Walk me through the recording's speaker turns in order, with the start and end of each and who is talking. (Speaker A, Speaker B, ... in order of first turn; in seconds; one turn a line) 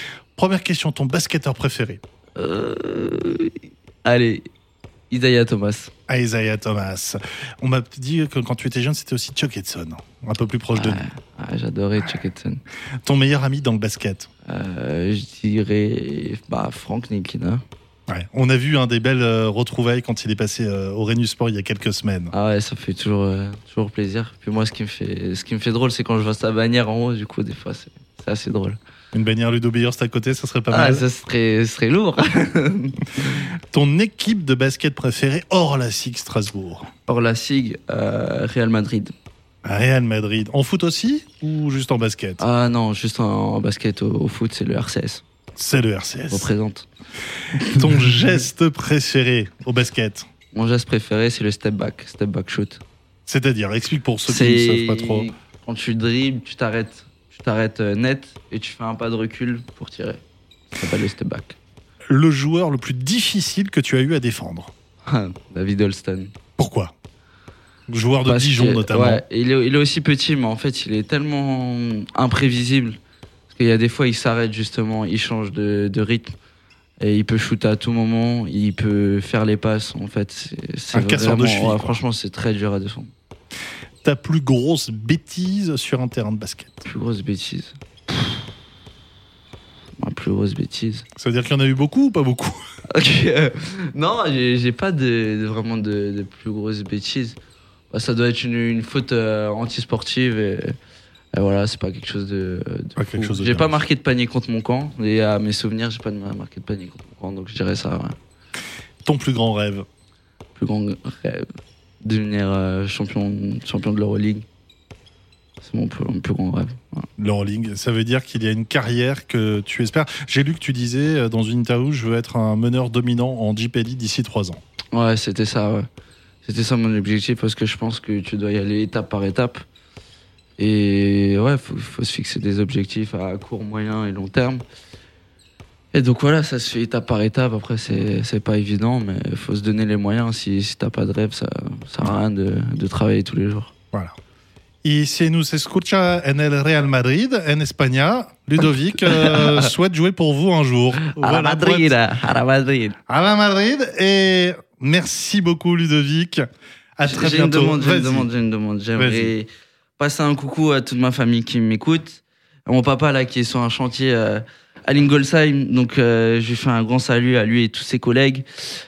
Speaker A: 0.3-2.0
Speaker B: 2.4-4.5
Speaker B: 5.1-5.9
Speaker A: 6.1-11.0
Speaker B: 10.7-12.6
Speaker A: 13.0-14.3
Speaker B: 14.5-17.6
Speaker A: 18.1-22.3
Speaker B: 22.3-28.8
Speaker A: 29.1-31.0
Speaker B: 30.7-33.4
Speaker A: 33.7-36.9
Speaker B: 37.1-39.1
Speaker A: 39.6-42.4
Speaker B: 42.4-45.2
Speaker A: 45.5-46.5
Speaker B: 46.3-46.9
Speaker A: 47.6-50.3
Speaker B: 47.8-48.0
Speaker B: 50.5-52.8
Speaker A: 53.3-55.3
Speaker B: 54.2-61.5
Speaker A: 62.1-64.7
Speaker B: 65.0-66.3
Speaker A: 66.6-66.9
Speaker A: 67.9-69.2
Speaker B: 68.2-73.0
Speaker B: 73.5-76.3
Speaker B: 77.0-83.1
Speaker A: 80.9-82.0
Speaker A: 84.0-86.8
Speaker B: 86.8-87.7
Speaker B: 90.0-91.0
Speaker A: 91.2-92.6
Speaker B: 92.9-97.4
Speaker B: 97.9-100.8
Speaker B: 101.3-108.2
Speaker A: 103.0-103.7
Speaker A: 109.0-109.8
Speaker B: 110.5-111.5
Speaker B: 112.0-114.4
Speaker B: 115.6-117.1
Speaker A: 117.2-124.6
Speaker B: 124.9-125.9
Speaker B: 126.4-129.6
Speaker B: 130.6-134.6
Speaker B: 135.9-143.7
Speaker A: 144.8-151.9
Speaker B: 149.1-149.7
Speaker B: 151.1-153.0
Speaker A: 153.1-156.4
Speaker A: 157.0-158.3
Speaker B: 157.1-168.5
Speaker A: 159.0-159.3